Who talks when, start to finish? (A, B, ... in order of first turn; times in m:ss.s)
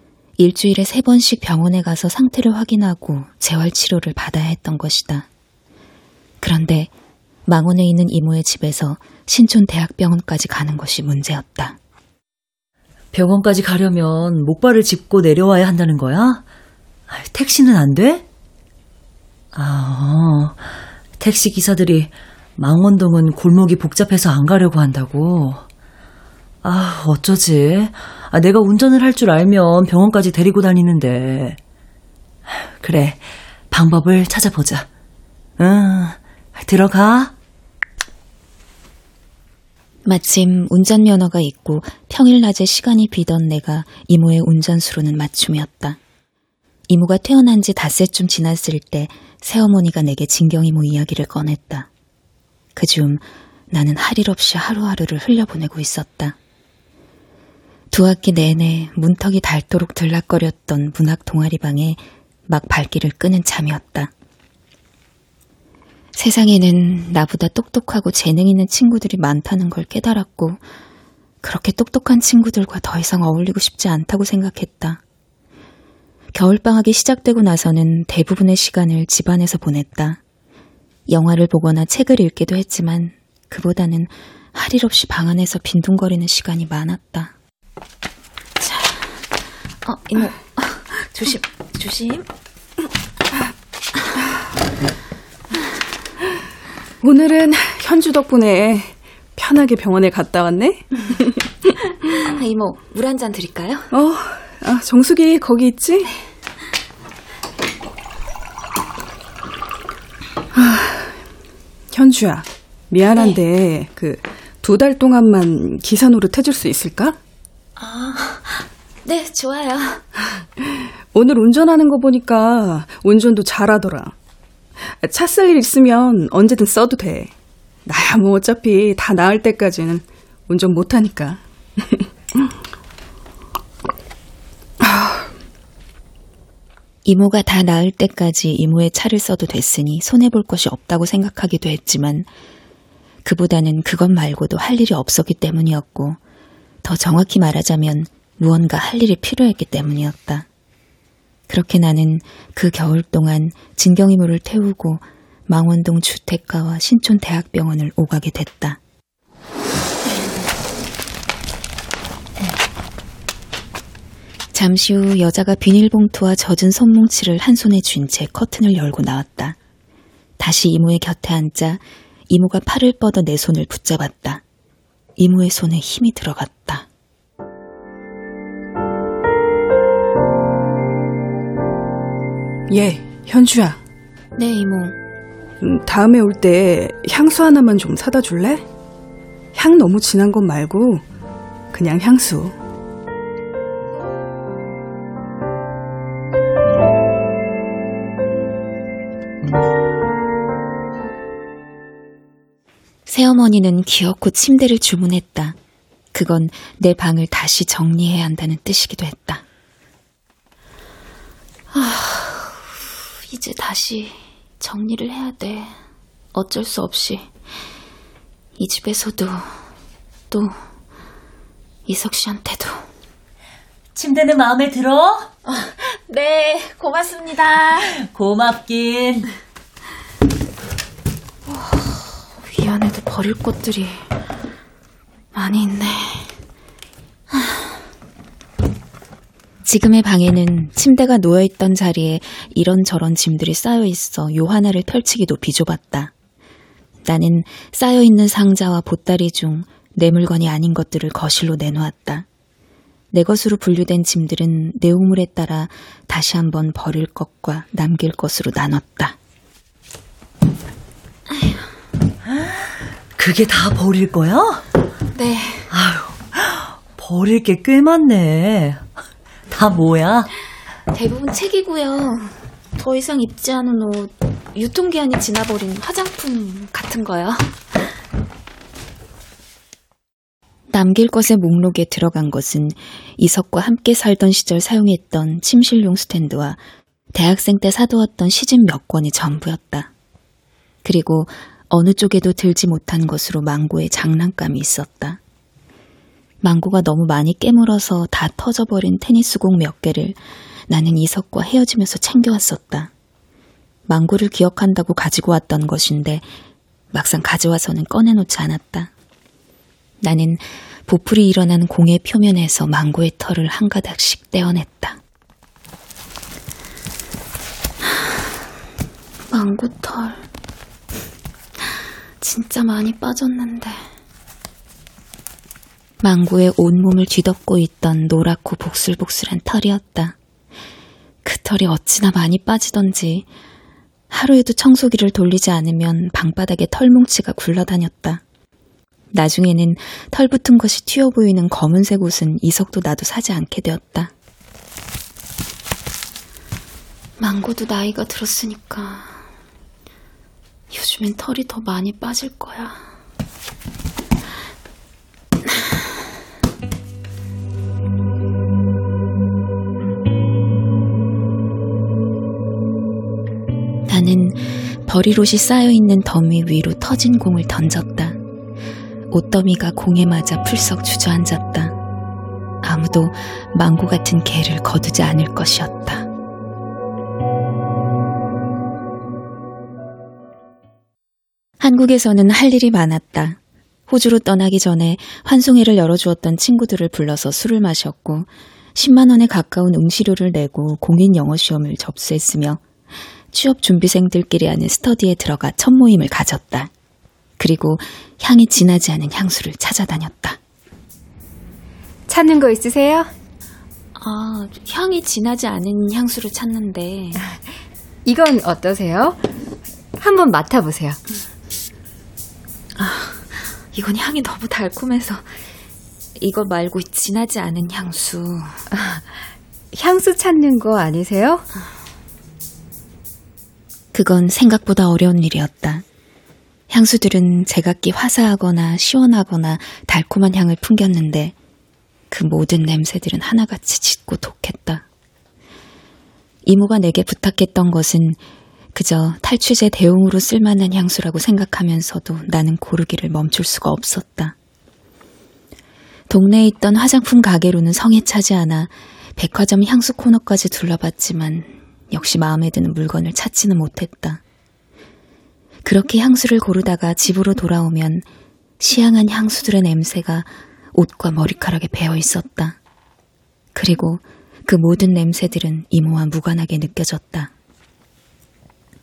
0:00.4-0:05.3 A
0:06.4-0:06.9 A
0:07.5-0:11.8 A
0:13.1-0:16.4 B
0:17.1-0:18.2 B
0:19.5-0:20.6 B
0:21.2-0:25.6 B
0:26.6-0:31.6 B
0:32.8-0:34.9 B
0:35.6-0:37.3 B
0:40.0-0:46.0 A
0:46.9-0:51.9 A
0:52.8-0:56.4 A
0:57.9-1:04.1 A
1:06.1-1:10.6 A
1:11.4-1:15.0 A
1:16.3-1:20.2 A
1:21.1-1:27.3 A
1:28.6-1:29.0 A
1:29.8-1:32.2 A
1:37.0-1:41.7 C
1:42.2-1:43.9 A
1:43.9-1:46.1 C
1:50.5-1:51.1 C
1:51.9-1:57.2 C
1:53.1-1:53.4 A
1:57.8-2:00.0 A
2:01.1-2:04.1 C
2:04.9-2:07.3 C
2:07.8-2:12.0 C
2:14.8-2:15.3 C
2:17.0-2:22.3 A
2:23.2-2:26.2 A
2:26.8-2:30.4 A
2:31.5-2:38.8 A
2:44.5-2:49.6 A
2:50.4-2:54.4 A
2:55.2-2:56.8 A
3:02.7-3:03.8 C
3:04.4-3:05.0 A
3:05.6-3:08.6 C
3:09.5-3:11.0 C
3:11.7-3:12.5 C
3:23.1-3:25.6 A
3:26.1-3:29.4 A
3:31.7-3:32.6 A
3:33.3-3:35.8 A
3:36.3-3:37.3 A
3:38.6-3:39.5 A
3:40.3-3:40.6 A
3:41.9-3:42.8 A
3:43.9-3:45.3 B
3:45.5-3:47.8 A
3:48.0-3:49.3 B
3:52.5-3:54.0 A
3:55.3-3:56.3 A
3:59.6-4:06.1 A
4:07.0-4:12.2 A
4:13.1-4:19.2 A
4:23.2-4:24.6 B
4:25.1-4:25.7 A
4:25.7-4:28.9 B
4:29.5-4:30.3 B
4:30.9-4:37.5 A
4:40.7-4:46.6 A
4:47.1-4:49.9 A
4:50.8-4:55.2 A
4:56.4-5:00.2 A
5:00.7-5:02.9 A
5:03.9-5:06.2 A
5:06.9-5:08.9 A
5:10.0-5:15.0 A
5:19.3-5:20.2 A
5:22.2-5:23.8 A
5:26.0-5:30.2 A
5:31.2-5:33.2 A
5:34.1-5:38.2 A
5:39.1-5:44.1 A
5:47.2-5:49.2 A
5:50.7-5:52.8 A
6:03.8-6:08.2 A
6:09.1-6:11.8 A
6:12.6-6:16.1 A
6:21.6-6:23.4 A
6:23.9-6:32.6 A
6:33.3-6:36.7 A
6:37.4-6:40.4 A
6:42.1-6:43.1 D
6:44.0-6:47.2 A
6:48.0-6:49.2 D
6:50.0-6:51.0 D
6:52.8-6:55.3 A
6:56.2-6:58.6 A
6:59.7-7:01.4 D
7:03.9-7:05.8 A
7:06.7-7:11.3 A
7:12.1-7:14.8 A
7:16.4-7:18.2 A
7:18.7-7:24.3 A
7:26.1-7:34.2 A
7:35.6-7:38.0 A
7:38.6-7:42.6 A
7:43.5-7:47.3 A